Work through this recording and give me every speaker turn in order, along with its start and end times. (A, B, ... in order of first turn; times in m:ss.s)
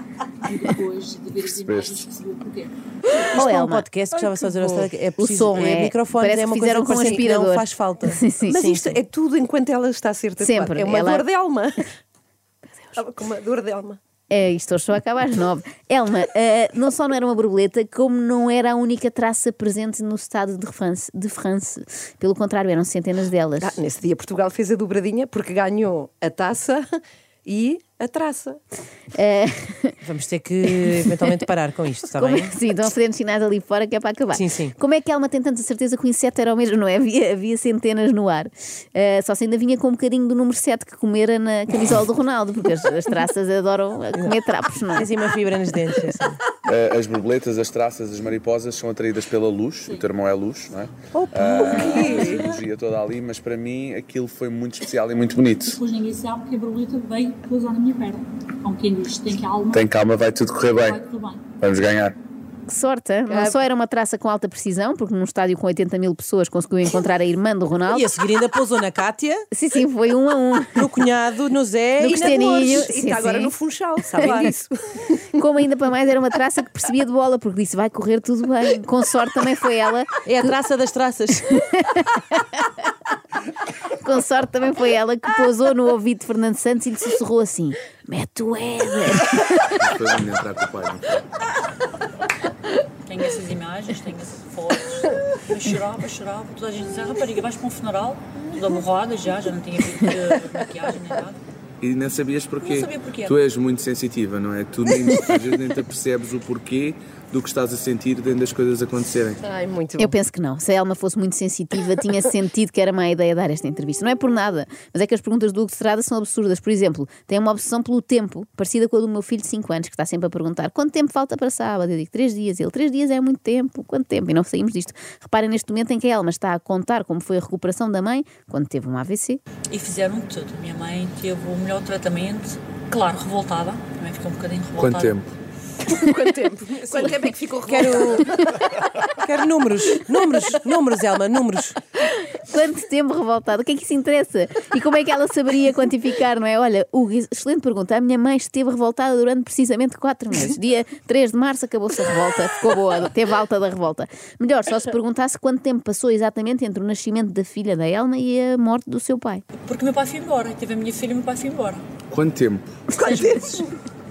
0:00.4-0:03.4 A
0:01.6-0:02.0 B
0:03.4-0:03.9 C
0:03.4-0:09.0 D
0:04.5-0:04.8 E
0:05.2-0:08.6 C
0:06.9-0:07.3 E
0:08.5-0:11.9 E
0:10.4-0:11.2 C
0:13.0-0:14.0 E
0:14.3-0:23.8 C
0:23.6-0:28.6 E
0:29.1-0:30.0 C
0:30.0-0:32.5 D
0:30.8-0:31.4 C
0:32.2-0:45.1 C
0:34.4-0:34.7 D
0:44.9-0:46.4 D
0:46.6-0:55.8 B
0:51.2-0:51.8 D
0:51.6-0:52.5 E
0:51.6-0:52.5 A
0:55.6-0:59.9 A
0:59.7-1:01.0 B
1:00.6-1:01.4 A
1:01.6-1:02.2 B
1:02.7-1:08.1 C
1:03.3-1:03.6 E
1:07.9-1:09.4 D
1:09.5-1:10.9 C
1:10.8-1:12.4 D
1:12.0-1:13.5 C
1:12.0-1:15.2 E
1:14.2-1:14.5 C
1:15.3-1:20.6 C
1:20.2-1:21.5 D
1:21.5-1:22.5 C
1:23.8-1:29.8 C
1:29.8-1:31.3 B
1:33.1-1:41.4 A
1:41.8-1:49.4 B
1:42.6-1:43.4 A
1:49.4-1:50.2 E
1:50.0-2:09.4 C
2:09.7-2:15.2 A
2:14.8-2:15.3 B
2:15.9-2:18.6 E
2:16.9-2:18.3 D
2:19.1-2:21.8 D
2:22.2-2:39.4 C
2:39.6-2:41.8 A
2:42.1-2:42.7 B
2:43.0-2:43.5 E
2:43.0-2:43.7 A